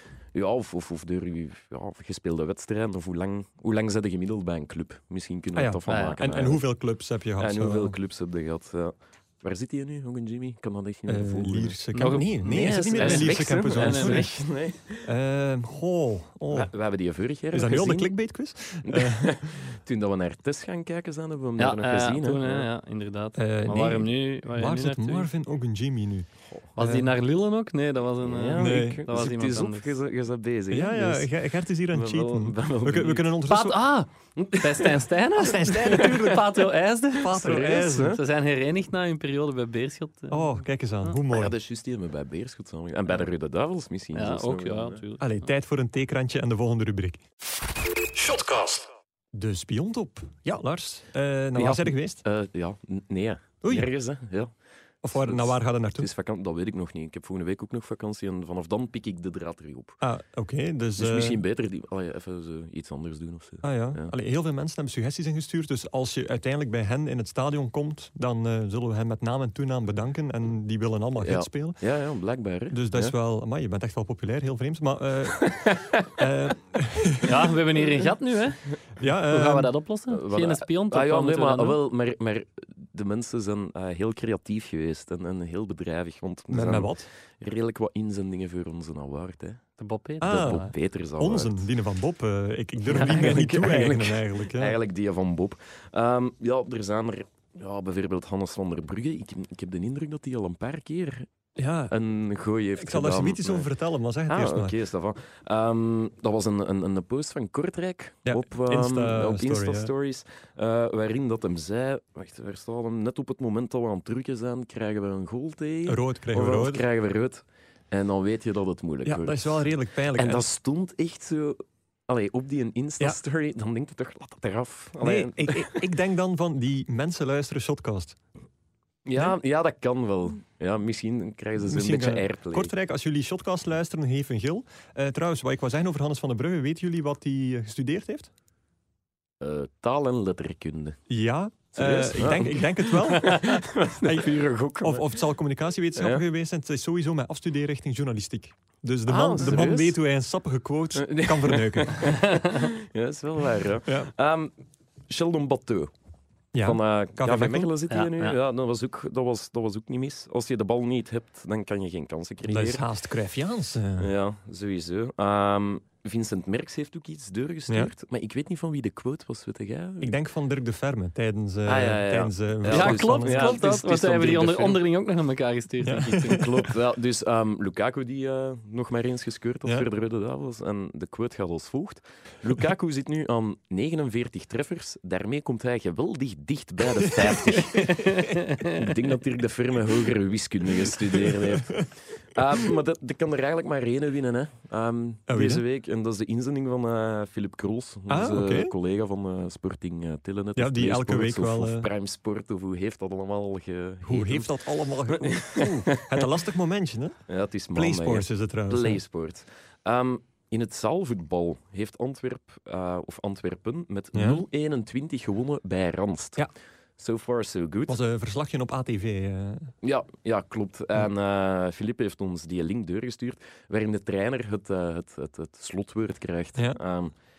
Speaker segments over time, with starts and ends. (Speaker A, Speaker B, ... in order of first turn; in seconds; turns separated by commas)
Speaker A: 0.3-6.6, Speaker B: 5.5-8.0, Speaker C: 5.9-6.2, Speaker A: 7.4-15.1, Speaker B: 11.1-16.7, Speaker C: 11.9-14.3, Speaker A: 16.5-18.1, Speaker B: 17.5-19.4, Speaker A: 18.8-22.7, Speaker C: 21.6-25.3, Speaker B: 23.4-26.3, Speaker C: 26.8-29.9, Speaker B: 26.8-27.1, Speaker A: 28.2-31.3, Speaker B: 28.6-29.0, Speaker B: 30.7-33.8, Speaker A: 31.9-33.4, Speaker C: 33.5-40.5, Speaker A: 34.4-35.0, Speaker B: 35.4-36.5, Speaker A: 35.9-36.4, Speaker B: 37.2-38.2, Speaker A: 37.2-38.2, Speaker B: 40.3-41.5, Speaker A: 41.3-45.0, Speaker C: 44.1-45.2, Speaker B: 45.2-47.2, Speaker B: 48.1-52.2, Speaker A: 51.6-54.5, Speaker B: 53.6-53.9, Speaker B: 55.0-56.1, Speaker A: 55.1-60.0, Speaker B: 60.0-61.4, Speaker A: 61.0-64.1, Speaker B: 63.6-71.8, Speaker A: 71.2-73.1, Speaker B: 72.7-77.6, Speaker A: 75.4-76.1, Speaker C: 77.2-78.7, Speaker B: 79.0-79.7, Speaker C: 79.3-81.8, Speaker A: 80.1-89.6, Speaker B: 86.5-87.1, Speaker C: 89.8-90.7, Speaker B: 90.2-94.8, Speaker A: 90.2-91.7, Speaker A: 92.9-101.3, Speaker B: 101.6-101.9, Speaker A: 101.9-103.7, Speaker B: 102.8-104.7, Speaker A: 104.3-119.6, Speaker B: 108.3-109.9, Speaker B: 115.9-116.8, Speaker B: 119.0-120.5, Speaker A: 120.1-125.9, Speaker B: 125.0-128.2, Speaker A: 129.1-132.7, Speaker B: 131.6-138.3, Speaker A: 139.4-141.0, Speaker B: 141.1-152.1, Speaker A: 141.7-145.2, Speaker A: 145.9-146.2, Speaker A: 149.1-150.0, Speaker A: 151.0-154.5, Speaker A: 155.1-155.9, Speaker B: 156.5-157.7, Speaker A: 156.6-162.8, Speaker C: 157.9-158.3, Speaker B: 162.5-164.1, Speaker A: 164.0-170.1, Speaker B: 170.0-173.6, Speaker A: 171.7-174.8, Speaker C: 172.7-176.5, Speaker B: 175.8-176.5, Speaker A: 176.2-206.3, Speaker C: 187.6-188.9, Speaker B: 190.9-191.9, Speaker B: 195.3-195.6, Speaker B: 198.1-198.7, Speaker B: 200.6-201.9, Speaker B: 204.0-207.2, Speaker A: 207.3-216.5, Speaker B: 207.7-209.0, Speaker B: 214.1-214.4, Speaker A: 217.0-218.0, Speaker B: 217.9-219.7, Speaker A: 219.8-227.1